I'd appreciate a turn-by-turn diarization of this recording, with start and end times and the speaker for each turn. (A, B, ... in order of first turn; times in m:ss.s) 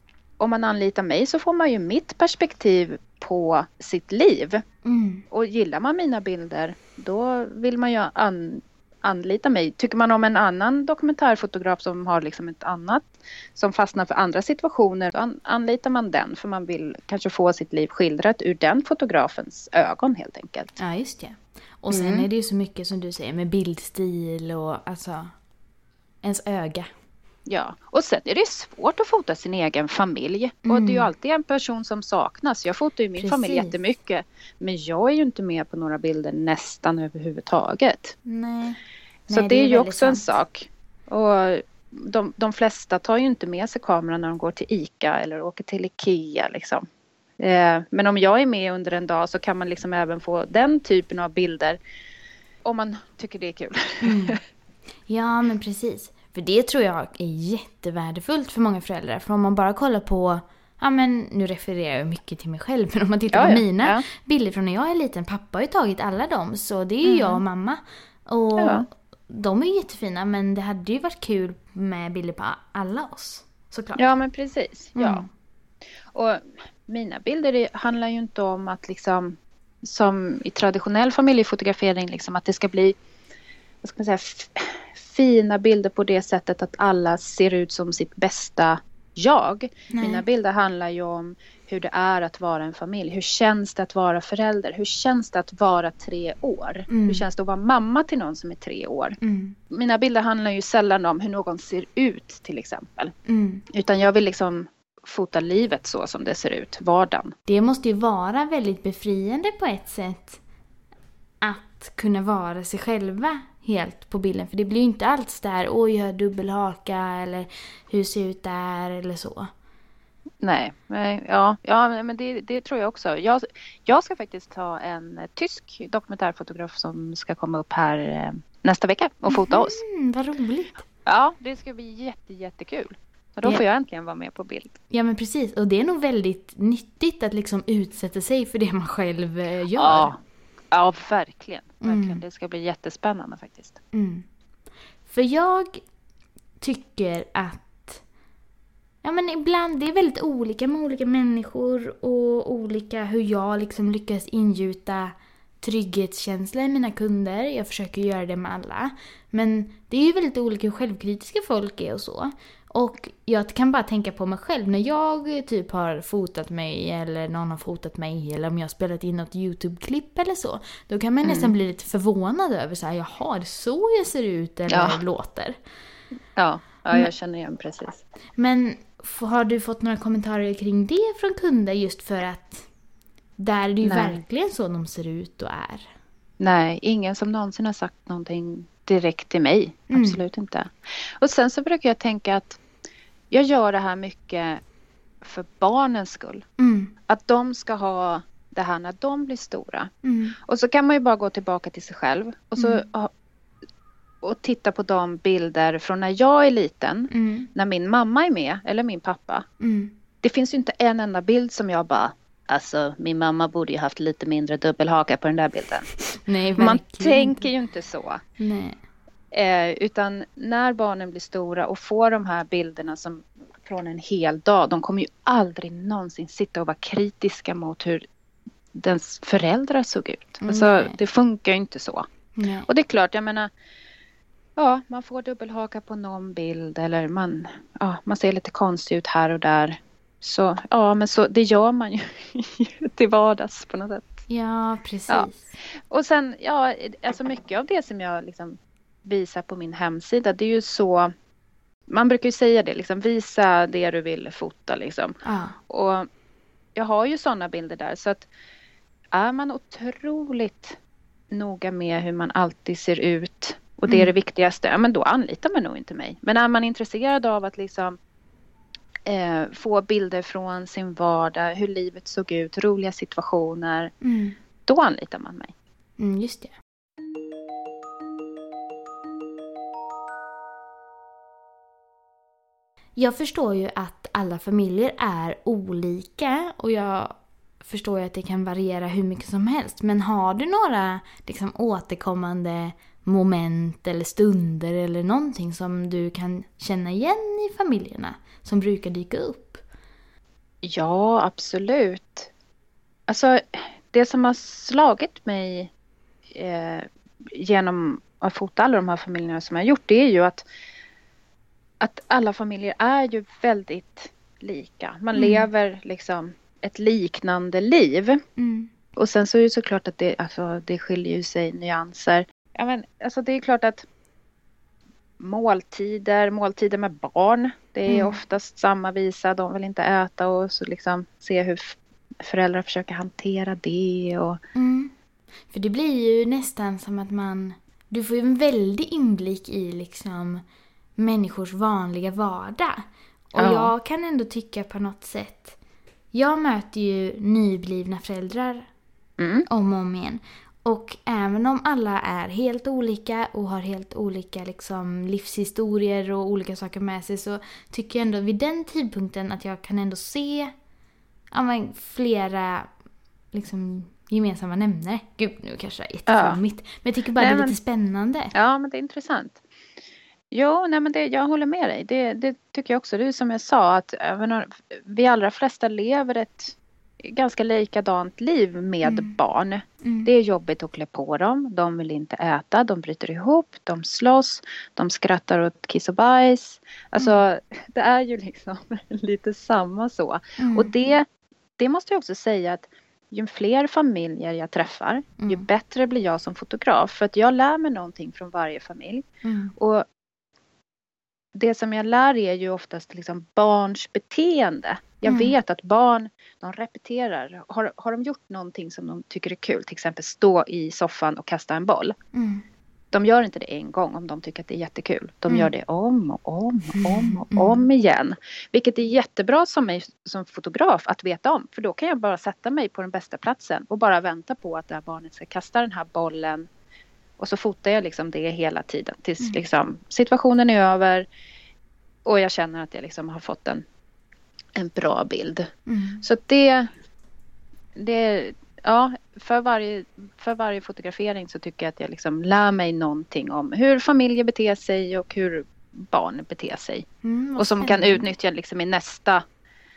0:00.4-0:04.6 A
0:04.8-0:05.2 B
0:05.3-0:20.8 A
0:20.8-0:25.3 B
0:21.9-0:22.3 A
0:26.2-0:26.9 B
0:27.5-0:38.1 A
0:30.6-0:31.1 B
0:33.2-0:33.8 B
0:38.2-0:40.3 B
0:39.3-0:46.8 A
0:47.4-0:51.8 A
0:52.6-0:54.4 A
0:54.0-0:54.4 B
0:55.1-1:14.0 B
1:03.3-1:04.0 A
1:07.0-1:07.4 A
1:08.6-1:08.9 A
1:14.0-1:15.3 A
1:15.0-1:15.3 B
1:16.1-1:23.0 A
1:23.8-1:39.2 A
1:29.9-1:30.2 B
1:36.9-1:37.2 B
1:39.2-1:39.6 B
1:39.7-1:43.1 A
1:43.3-1:43.6 B
1:43.7-1:47.4 A
1:47.5-1:50.4 B
1:51.4-1:59.5 B
2:00.4-2:09.8 A
2:09.3-2:10.9 B
2:11.1-2:14.8 A
2:14.9-2:20.2 B
2:19.8-2:20.2 A
2:20.7-2:23.8 A
2:21.8-2:22.2 B
2:23.9-2:24.3 B
2:25.1-2:25.8 B
2:26.6-2:28.0 B
2:29.0-2:55.6 B
2:51.2-2:51.5 A
2:54.7-2:55.0 A
2:56.4-2:58.0 A
2:58.4-3:02.7 B
3:03.4-3:05.9 B
3:03.8-3:04.2 A
3:06.4-3:12.6 A
3:09.9-3:10.2 B
3:13.3-3:14.6 A
3:15.2-3:16.4 A
3:16.6-3:16.9 B
3:17.1-3:23.1 A
3:20.0-3:20.4 B
3:22.6-3:22.8 B
3:24.2-3:29.5 A
3:27.1-3:27.5 B
3:29.6-3:29.9 B
3:30.2-3:35.9 A
3:36.1-3:37.5 B
3:36.6-3:38.2 A
3:38.4-3:38.8 B
3:39.3-3:48.0 A
3:48.7-3:52.1 A
3:50.4-3:51.0 B
3:52.4-3:52.7 B
3:52.7-3:53.5 A
3:54.6-4:04.2 A
4:04.3-4:05.5 B
4:05.9-4:11.1 A
4:11.9-4:15.2 A
4:15.2-4:15.6 B
4:15.7-4:16.1 A
4:16.8-4:18.3 A
4:19.1-4:20.8 A
4:21.3-4:28.0 A
4:29.1-4:33.9 A
4:34.0-4:34.4 B
4:34.7-4:35.5 A
4:36.0-4:36.5 B
4:43.0-4:59.6 B
5:00.6-5:02.3 A
5:03.1-5:05.7 A
5:06.3-5:10.4 A
5:11.8-5:18.2 A
5:15.2-5:15.5 B
5:18.4-5:18.7 B
5:19.0-5:23.9 A
5:25.2-5:34.4 A
5:27.9-5:28.2 B
5:34.6-5:34.9 B
5:35.5-5:40.4 B
5:41.0-5:45.6 B
5:43.4-5:43.7 A
5:46.1-5:48.7 B
5:49.2-5:49.5 A
5:49.5-6:00.5 B
6:01.3-6:02.7 B
6:03.3-6:08.3 B
6:06.1-6:06.4 A
6:07.2-6:07.6 A
6:08.3-6:09.4 A
6:10.3-6:31.0 A
6:18.8-6:19.1 B
6:19.8-6:20.1 B
6:30.4-6:30.7 B
6:31.6-6:39.1 A
6:35.2-6:35.4 B
6:39.2-6:39.5 B
6:39.6-6:39.9 A
6:41.4-6:52.0 A
6:45.0-6:45.3 B
6:52.1-6:52.4 B
6:52.9-7:06.5 A
6:56.8-6:57.6 B
7:07.2-7:11.1 A
7:12.0-7:13.6 A
7:14.6-7:15.5 A
7:15.7-7:16.0 B
7:16.0-7:16.7 A
7:17.8-7:26.9 A
7:27.0-7:28.1 B
7:27.4-7:29.2 A